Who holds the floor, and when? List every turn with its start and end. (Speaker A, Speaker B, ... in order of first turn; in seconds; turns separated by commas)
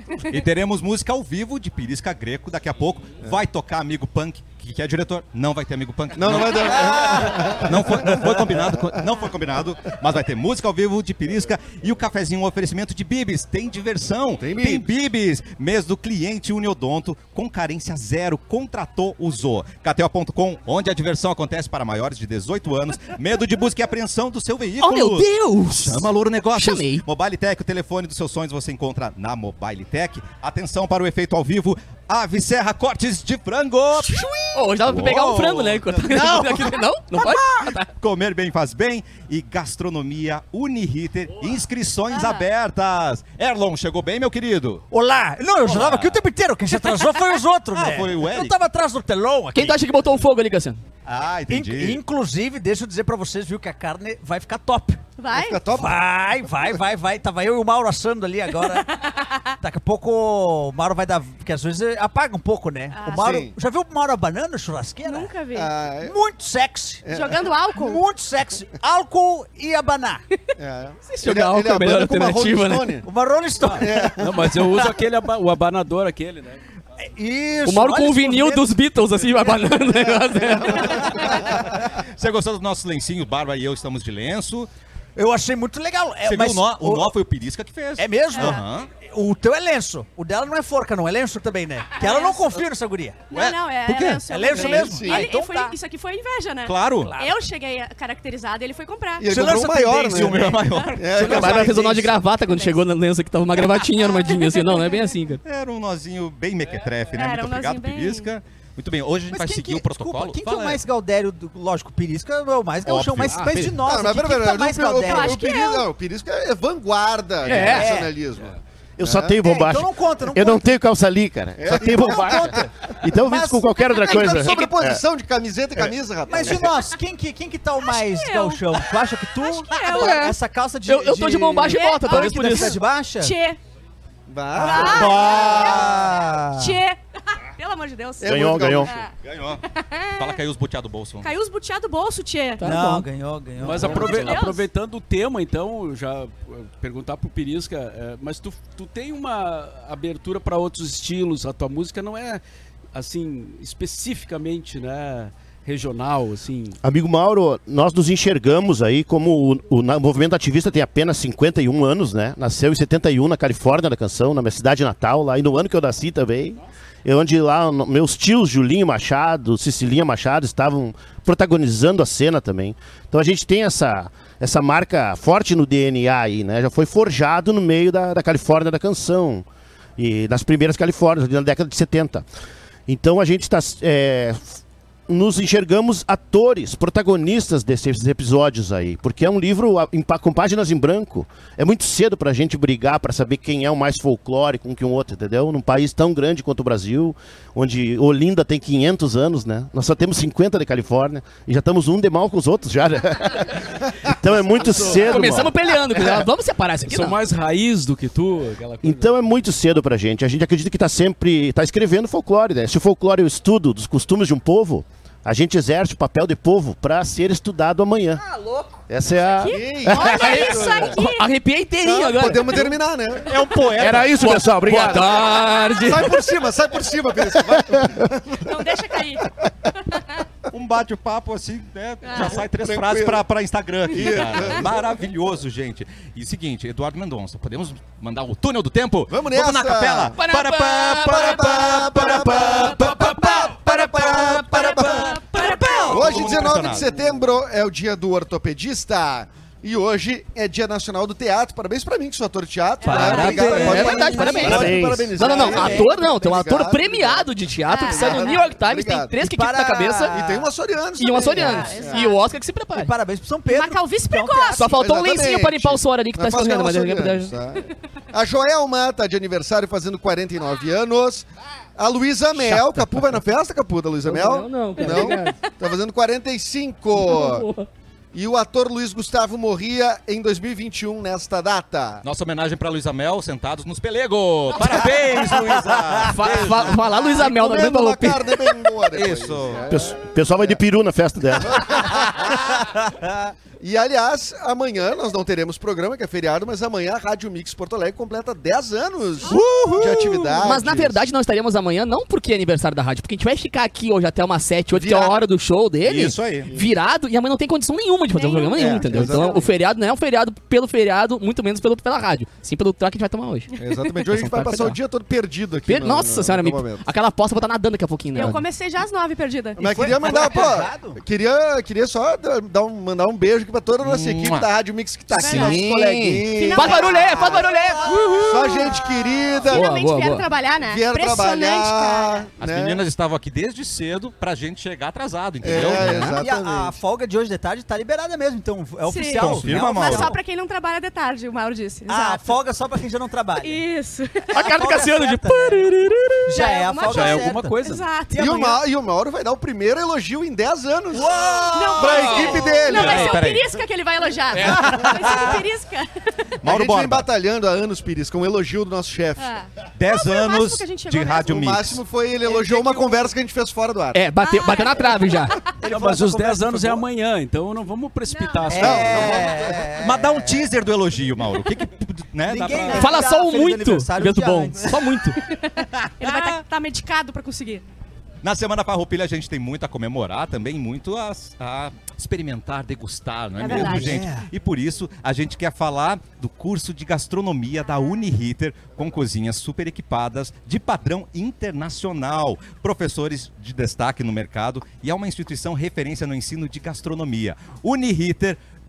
Speaker A: 0.3-36.7, Speaker B: 6.1-9.0, Speaker B: 14.4-14.8, Speaker C: 24.8-27.1, Speaker D: 34.0-34.5, Speaker C: 34.5-37.9, Speaker D: 36.1-36.5, Speaker D: 37.1-37.7, Speaker A: 37.9-44.8, Speaker E: 42.1-42.4, Speaker D: 44.9-49.8, Speaker A: 45.6-46.2, Speaker A: 47.7-48.6, Speaker C: 49.5-50.8, Speaker A: 51.0-52.0, Speaker D: 51.5-55.0, Speaker E: 55.2-55.6, Speaker B: 55.3-55.9, Speaker D: 55.7-59.0, Speaker E: 59.0-59.5, Speaker D: 59.6-65.3, Speaker E: 62.9-63.2, Speaker B: 63.1-63.5, Speaker E: 65.0-65.7, Speaker B: 65.5-66.1, Speaker D: 66.0-67.0, Speaker B: 67.0-67.4, Speaker E: 67.1-68.0, Speaker D: 67.7-70.2, Speaker B: 70.6-73.0, Speaker C: 71.0-73.0, Speaker D: 73.0-74.1, Speaker F: 73.6-76.6, Speaker B: 73.6-74.5, Speaker D: 74.6-74.9, Speaker D: 77.0-78.6, Speaker C: 77.6-81.2, Speaker B: 80.3-81.3, Speaker D: 80.6-81.4, Speaker A: 81.2-84.7, Speaker D: 85.2-87.1, Speaker A: 86.2-88.9, Speaker D: 88.0-93.3, Speaker E: 88.3-88.6, Speaker E: 91.9-92.5, Speaker E: 93.3-99.4, Speaker A: 93.3-94.2, Speaker D: 94.2-95.8, Speaker B: 94.5-95.3, Speaker A: 96.7-97.1, Speaker D: 97.0-97.4, Speaker B: 99.2-102.2, Speaker D: 99.3-100.6, Speaker A: 100.1-101.8, Speaker C: 101.1-105.4, Speaker E: 102.3-102.8, Speaker E: 104.0-104.9, Speaker A: 105.4-110.8, Speaker E: 107.1-108.3, Speaker D: 109.3-115.5, Speaker A: 112.8-113.7, Speaker C: 113.3-113.7, Speaker B: 113.8-119.4, Speaker E: 115.0-115.8, Speaker C: 117.4-117.9, Speaker D: 117.5-118.1, Speaker G: 119.0-125.0, Speaker D: 119.4-120.6, Speaker B: 121.6-122.7, Speaker D: 121.9-123.7, Speaker B: 124.0-126.7, Speaker D: 126.3-133.4, Speaker E: 127.8-130.3, Speaker C: 129.9-130.3, Speaker C: 130.8-132.8, Speaker E: 131.7-133.6, Speaker B: 134.3-135.8, Speaker E: 134.5-136.1, Speaker A: 134.6-136.2, Speaker D: 134.7-136.8, Speaker E: 136.6-137.0, Speaker E: 137.6-139.1, Speaker B: 138.2-139.1, Speaker G: 138.2-138.9, Speaker A: 139.2-139.6, Speaker E: 139.7-140.4, Speaker A: 140.2-141.3, Speaker E: 141.2-142.7, Speaker C: 142.6-143.1, Speaker D: 142.6-144.4, Speaker F: 143.6-152.4, Speaker E: 143.8-144.7, Speaker F: 152.9-156.8, Speaker G: 156.8-179.4, Speaker G: 180.0-182.2, Speaker G: 182.9-206.0, Speaker F: 204.4-205.4, Speaker C: 204.7-207.2, Speaker F: 206.8-209.1, Speaker G: 208.8-218.2, Speaker C: 218.3-218.7, Speaker G: 218.9-220.4, Speaker E: 219.4-221.3, Speaker B: 219.4-221.0, Speaker C: 220.1-222.7, Speaker B: 221.8-223.4, Speaker A: 223.2-224.2, Speaker G: 223.8-225.4, Speaker C: 224.2-226.2, Speaker B: 225.8-228.9, Speaker G: 227.4-227.9, Speaker E: 228.4-229.3, Speaker A: 230.5-244.8, Speaker E: 232.0-232.4, Speaker B: 232.6-233.2, Speaker B: 233.9-234.8, Speaker B: 239.1-240.2, Speaker C: 240.2-246.0, Speaker B: 241.0-245.2, Speaker E: 244.6-246.5, Speaker A: 245.8-246.9, Speaker B: 245.9-257.3, Speaker E: 252.8-254.6, Speaker D: 252.8-255.9, Speaker C: 252.8-260.1, Speaker G: 254.4-255.4, Speaker E: 257.6-258.4, Speaker B: 257.9-259.1, Speaker D: 259.2-260.5, Speaker B: 260.1-262.1, Speaker C: 261.0-262.9, Speaker E: 261.3-262.2, Speaker D: 261.4-261.8, Speaker D: 262.7-264.7, Speaker E: 263.5-264.7, Speaker C: 264.5-267.3, Speaker B: 264.7-277.5, Speaker C: 274.0-275.4, Speaker E: 274.8-275.5, Speaker C: 277.0-277.7, Speaker B: 278.1-282.0, Speaker A: 282.0-287.0, Speaker B: 284.6-285.6, Speaker D: 285.2-285.9, Speaker C: 286.0-288.5, Speaker B: 286.2-289.9, Speaker A: 288.9-289.7, Speaker G: 289.7-291.9, Speaker B: 291.4-292.6, Speaker B: 293.6-301.0, Speaker C: 299.3-313.5, Speaker B: 304.7-305.2, Speaker A: 305.8-306.5, Speaker B: 306.4-306.7, Speaker E: 308.1-309.4, Speaker B: 308.6-309.4, Speaker B: 313.6-316.8, Speaker C: 314.0-314.8, Speaker C: 315.6-318.4, Speaker E: 318.1-319.7, Speaker B: 319.6-327.4, Speaker D: 319.6-321.0, Speaker A: 323.8-324.5, Speaker E: 325.1-325.6, Speaker C: 325.1-328.8, Speaker E: 326.3-332.3, Speaker D: 327.3-328.0, Speaker B: 328.1-329.7, Speaker C: 329.5-330.3, Speaker B: 330.6-332.8, Speaker A: 332.4-336.1, Speaker B: 335.4-336.8, Speaker D: 335.5-340.2, Speaker E: 338.9-342.3, Speaker A: 339.1-340.1, Speaker D: 341.9-343.6, Speaker E: 343.4-344.5, Speaker D: 344.3-345.7, Speaker C: 344.3-346.3, Speaker D: 346.2-347.6, Speaker E: 346.3-348.5, Speaker F: 346.9-347.9, Speaker B: 348.1-351.2, Speaker D: 348.1-348.4, Speaker D: 350.9-352.7, Speaker C: 351.2-352.6, Speaker E: 351.5-356.3, Speaker B: 351.7-353.2, Speaker A: 352.1-353.5, Speaker D: 354.4-355.4, Speaker B: 354.5-355.2, Speaker A: 356.4-357.1, Speaker B: 356.4-359.3, Speaker E: 359.2-361.3, Speaker A: 359.8-361.8, Speaker B: 361.2-364.0, Speaker D: 362.2-362.8, Speaker C: 363.9-365.4, Speaker E: 364.2-365.6, Speaker D: 365.6-366.8, Speaker F: 365.6-369.3, Speaker E: 368.1-368.6, Speaker D: 368.5-370.4, Speaker B: 368.5-369.6, Speaker A: 369.8-373.0, Speaker D: 372.2-374.9, Speaker C: 372.7-375.2, Speaker E: 375.2-377.6, Speaker A: 376.0-376.4, Speaker A: 378.2-398.4, Speaker E: 383.4-384.0, Speaker D: 383.4-384.3